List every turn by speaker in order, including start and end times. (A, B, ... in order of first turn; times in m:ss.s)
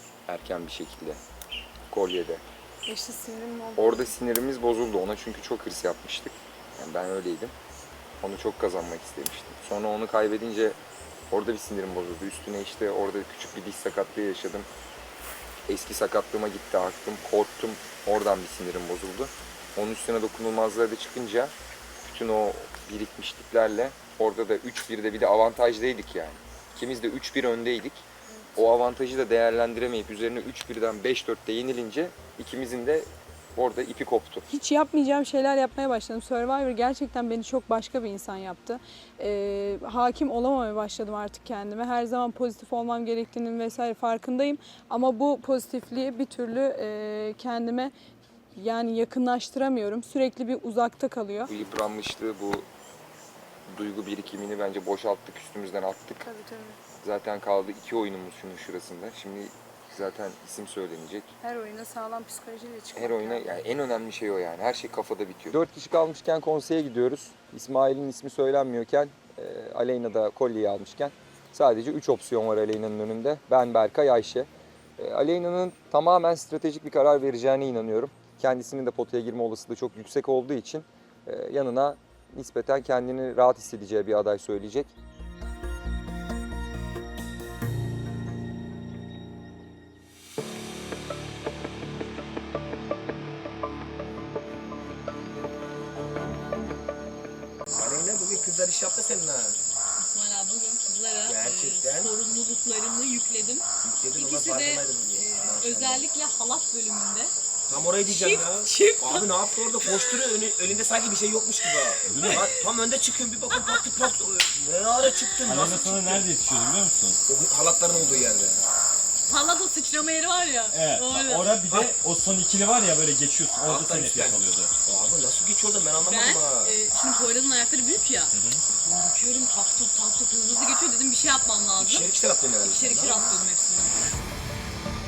0:00.3-0:01.2 A
0:01.9-0:02.4 A
0:02.9-0:04.1 B
0:03.8-0:07.5 A
0:08.2-0:10.8 A
0:11.3-0:14.7 A
0:15.7-0:34.4 A
0:34.5-0:47.9 B
0:48.6-0:51.5 B
0:51.5-0:52.7 A
0:53.7-0:56.2 A
0:56.2-0:56.8 B
0:57.0-1:01.3 A
1:01.4-1:03.5 B
1:02.9-1:24.9 A
1:37.8-1:39.6 C
1:40.0-1:47.3 D
1:41.2-1:42.1 C
1:43.8-1:46.1 C
1:47.7-1:56.3 C
1:48.0-1:50.4 D
1:51.7-1:52.7 D
1:52.1-1:52.5 E
1:53.5-1:54.2 D
1:55.4-1:57.2 E
1:57.3-1:58.6 C
1:59.2-2:01.6 D
2:00.7-2:04.7 E
2:03.6-2:06.8 C
2:06.0-2:14.2 D
2:08.3-2:08.6 E
2:11.8-2:13.3 C